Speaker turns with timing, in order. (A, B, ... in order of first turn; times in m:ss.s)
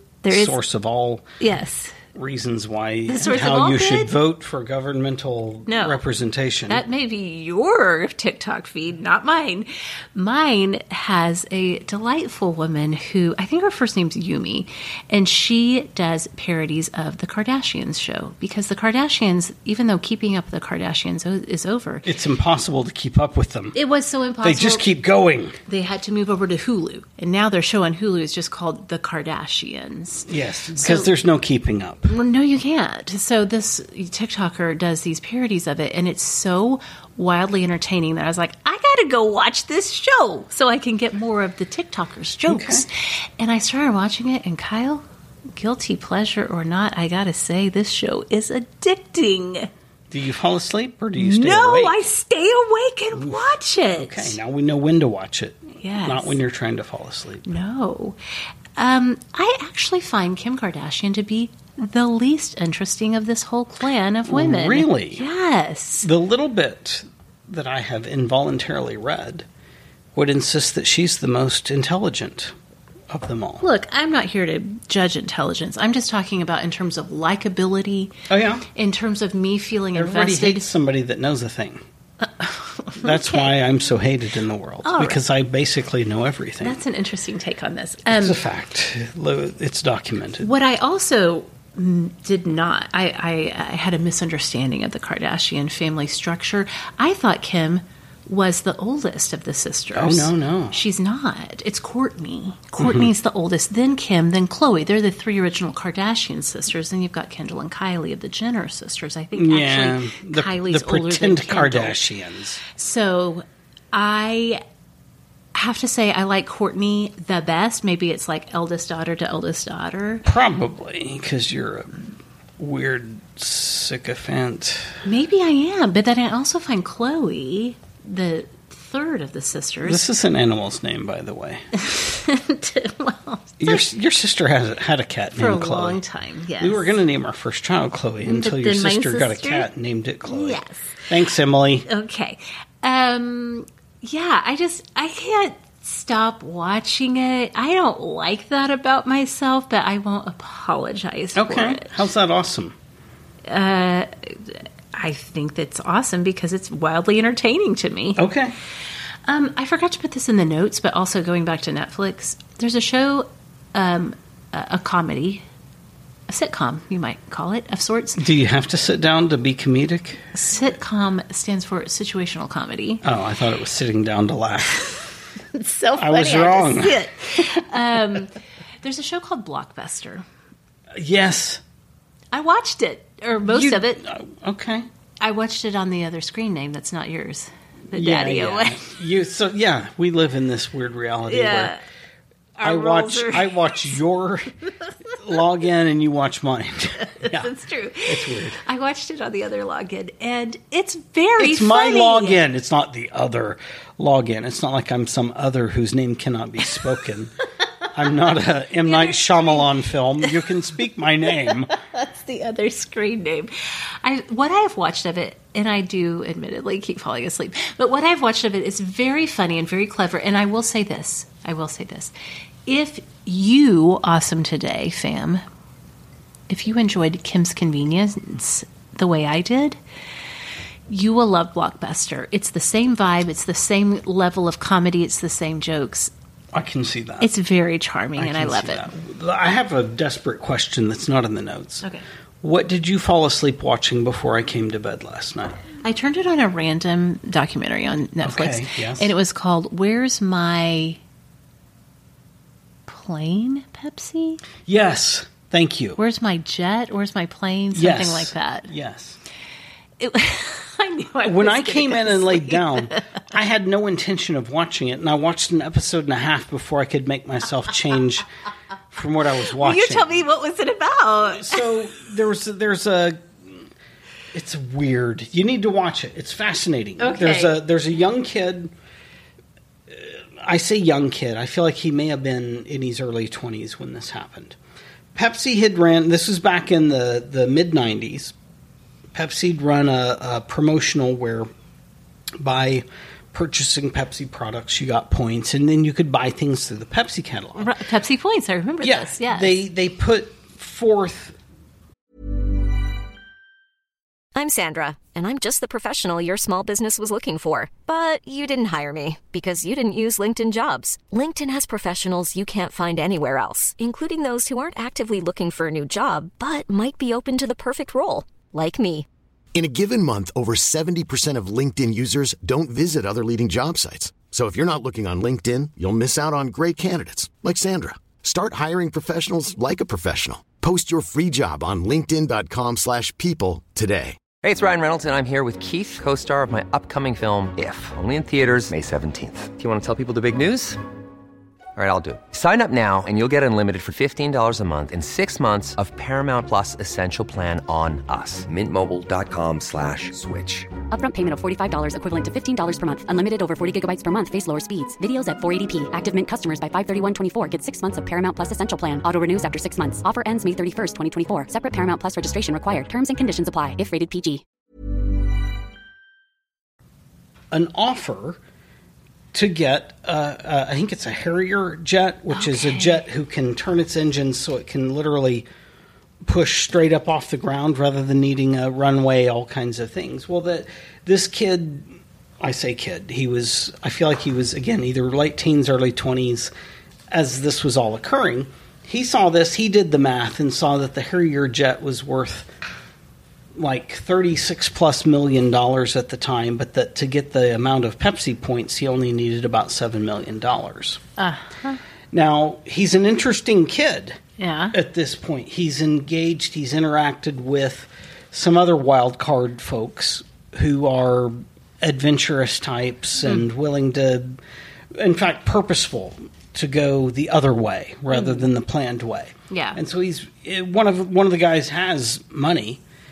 0:00.2-0:00.6 A
0:00.3-0:01.3 B
0:01.4-0:02.0 A
0:02.2-0:06.8 B
0:03.1-0:04.1 A
0:05.7-0:06.0 A
0:06.7-0:22.1 A
0:22.0-0:23.8 B
0:23.7-0:24.8 A
0:24.4-0:25.6 B
0:25.7-0:31.1 A
0:30.3-0:32.1 B
0:32.1-0:49.7 A
0:42.5-0:42.8 B
0:50.1-0:52.0 B
0:51.2-0:54.4 A
0:53.2-0:53.4 B
0:54.0-0:57.5 B
0:55.8-0:56.4 A
0:57.5-0:58.2 A
0:58.8-1:06.1 A
1:04.3-1:05.2 B
1:06.0-1:09.5 B
1:10.2-1:12.5 B
1:13.1-1:13.6 B
1:13.6-1:18.1 A
1:18.3-1:18.7 B
1:18.8-1:20.7 A
1:20.0-1:21.8 B
1:22.2-1:23.6 A
1:23.0-1:26.8 B
1:24.8-1:25.2 A
1:26.6-1:28.4 A
1:28.1-1:30.5 B
1:30.4-1:52.0 A
1:40.0-1:40.8 B
1:42.8-1:43.1 B
1:49.4-1:52.6 B
1:52.7-1:54.6 A
1:55.6-2:00.2 A
2:00.3-2:04.9 B
2:05.0-2:10.0 A
2:09.8-2:11.6 B
2:11.7-2:13.8 A
2:13.6-2:16.0 B
2:15.4-2:16.9 A
2:16.6-2:21.9 B
2:18.2-2:19.7 A
2:20.3-2:21.0 A
2:21.9-2:31.9 A
2:31.4-2:32.7 B
2:33.5-2:38.2 A
2:38.2-2:38.6 B
2:39.3-2:45.4 A
2:46.3-2:48.2 A
2:48.2-2:50.2 B
2:50.4-2:53.0 A
2:53.0-2:54.9 B
2:55.5-3:00.2 A
2:56.0-2:57.0 B
3:01.0-3:01.6 B
3:02.3-3:04.0 A
3:03.5-3:04.9 B
3:05.2-3:08.9 A
3:07.9-3:11.7 B
3:11.3-3:11.8 A
3:12.6-3:14.0 A
3:12.6-3:14.5 B
3:15.2-3:17.5 B
3:17.2-3:22.4 A
3:18.1-3:18.6 B
3:21.4-3:27.3 B
3:27.9-3:31.7 B
3:28.8-3:29.7 A
3:31.5-3:42.1 A
3:42.7-3:45.4 A
3:46.5-3:49.8 A
3:50.9-3:56.1 A
3:56.5-3:57.3 B
3:57.2-3:58.9 A
3:58.2-4:01.9 B
4:02.4-4:05.6 B
4:05.8-4:11.0 A
4:08.2-4:09.1 B
4:12.9-4:14.4 A
4:14.7-4:16.0 B
4:16.0-4:18.7 A
4:17.7-4:19.2 B
4:20.0-4:23.0 A
4:21.2-4:28.2 B
4:28.9-4:30.2 B
4:29.6-4:31.6 A
4:31.3-4:33.3 B
4:34.3-4:38.7 B
4:37.0-4:37.6 A
4:39.9-4:44.6 B
4:45.2-4:48.3 B
4:49.1-4:51.5 B
4:52.4-4:57.7 B
4:57.6-4:59.6 A
4:58.8-5:01.4 B
5:04.4-5:19.1 C
5:19.5-5:34.2 D
5:34.4-5:40.8 E
5:41.8-5:50.7 E
5:50.9-6:04.4 F
6:07.5-6:08.4 B
6:09.3-6:15.5 B
6:12.3-6:13.0 A
6:16.3-6:21.9 B
6:22.4-6:26.5 B
6:27.1-6:32.5 B
6:33.6-6:41.0 B
6:41.2-6:41.8 A
6:42.1-6:44.2 B
6:44.4-6:44.8 A
6:44.7-6:54.4 B
6:55.0-7:02.8 B
6:58.1-6:58.5 A
6:59.5-6:59.8 A